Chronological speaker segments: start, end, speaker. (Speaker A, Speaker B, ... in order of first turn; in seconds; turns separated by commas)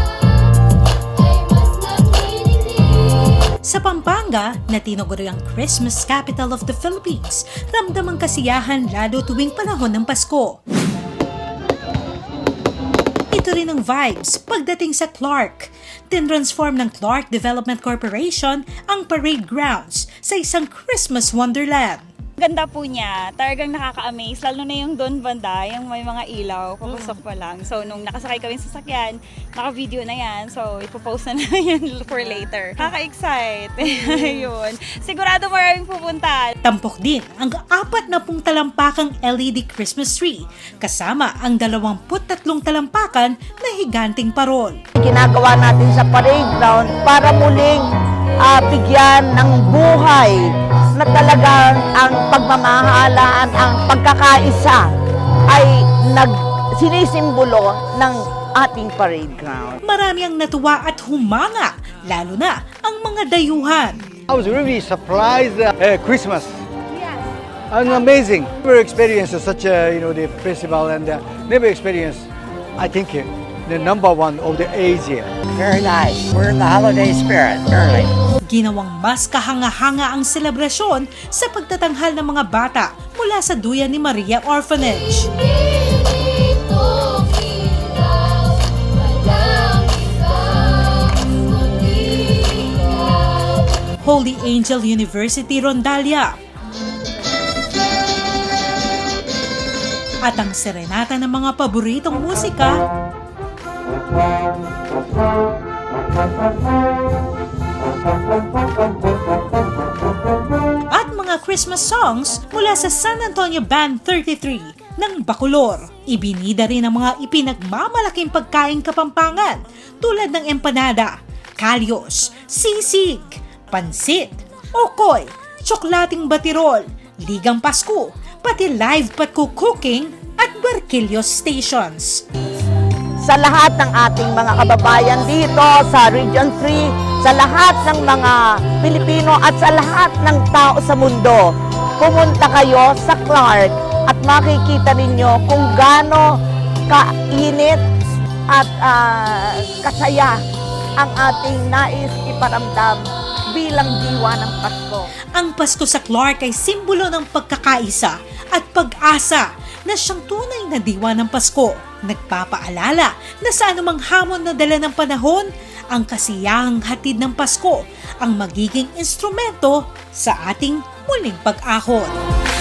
Speaker A: 1.7-2.9, Speaker B: 3.6-10.6, Speaker B: 13.3-22.1, Speaker A: 22.4-36.5, Speaker B: 36.6-44.8, Speaker C: 45.0-47.9, Speaker C: 48.4-50.4, Speaker C: 51.0-54.8, Speaker C: 55.5-59.8, Speaker B: 59.8-64.0, Speaker D: 64.3-66.6, Speaker A: 66.9-67.3, Speaker D: 67.7-75.4, Speaker E: 75.5-78.1, Speaker B: 78.5-85.3, Speaker A: 86.2-88.5, Speaker A: 89.2-93.4, Speaker B: 94.0-96.4, Speaker B: 100.2-102.8, Speaker B: 110.9-132.2, Speaker C: 133.2-146.3, Speaker C: 146.9-147.8, Speaker C: 148.5-150.4, Speaker C: 151.0-155.1, Speaker B: 155.3-172.2